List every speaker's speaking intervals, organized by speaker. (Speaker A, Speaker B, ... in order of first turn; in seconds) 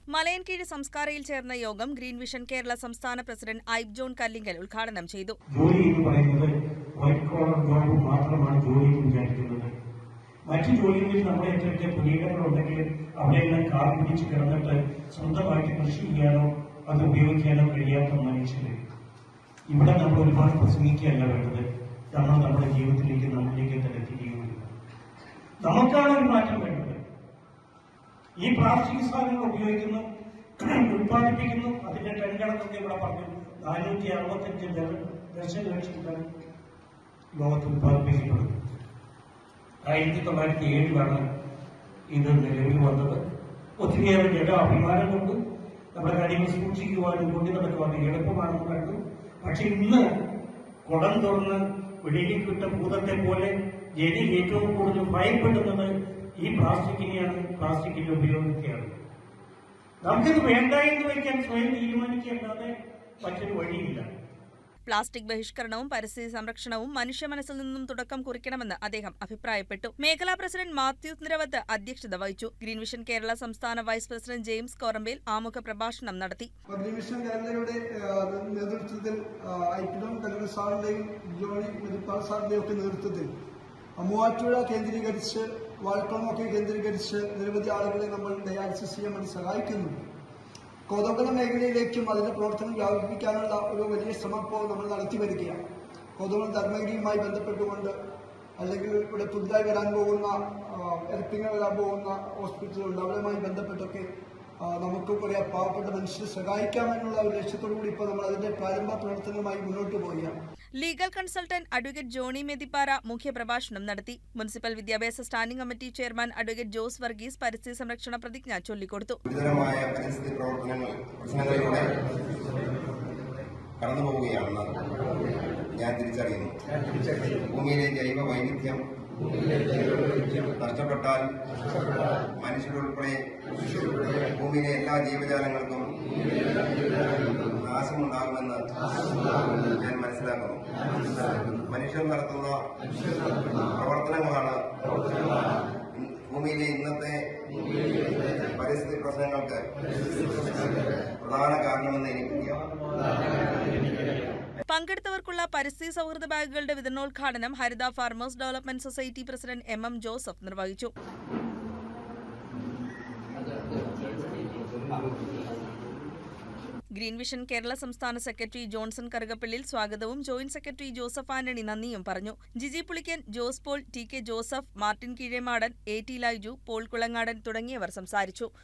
Speaker A: 0.1-5.4, 64.9-76.5, 110.8-119.2, 154.7-160.9, 167.0-178.5
Speaker B: 5.5-9.7, 10.5-18.8, 19.7-24.7, 25.6-27.0, 28.4-30.0, 30.6-36.3, 37.4-38.5, 39.8-41.2, 42.1-43.2, 43.8-45.4, 45.9-50.0, 50.9-58.9, 60.0-64.1
Speaker C: 76.7-83.3, 84.0-90.0, 90.9-95.6, 96.2-98.0, 98.6-104.1, 104.6-110.3
Speaker D: 119.2-121.9, 123.8-124.8, 125.7-126.5, 127.5-128.8, 130.6-131.3, 132.4-135.9, 137.4-138.6, 139.5-140.6, 141.2-142.6, 143.7-144.6, 145.9-147.2, 148.4-149.7, 151.2-152.7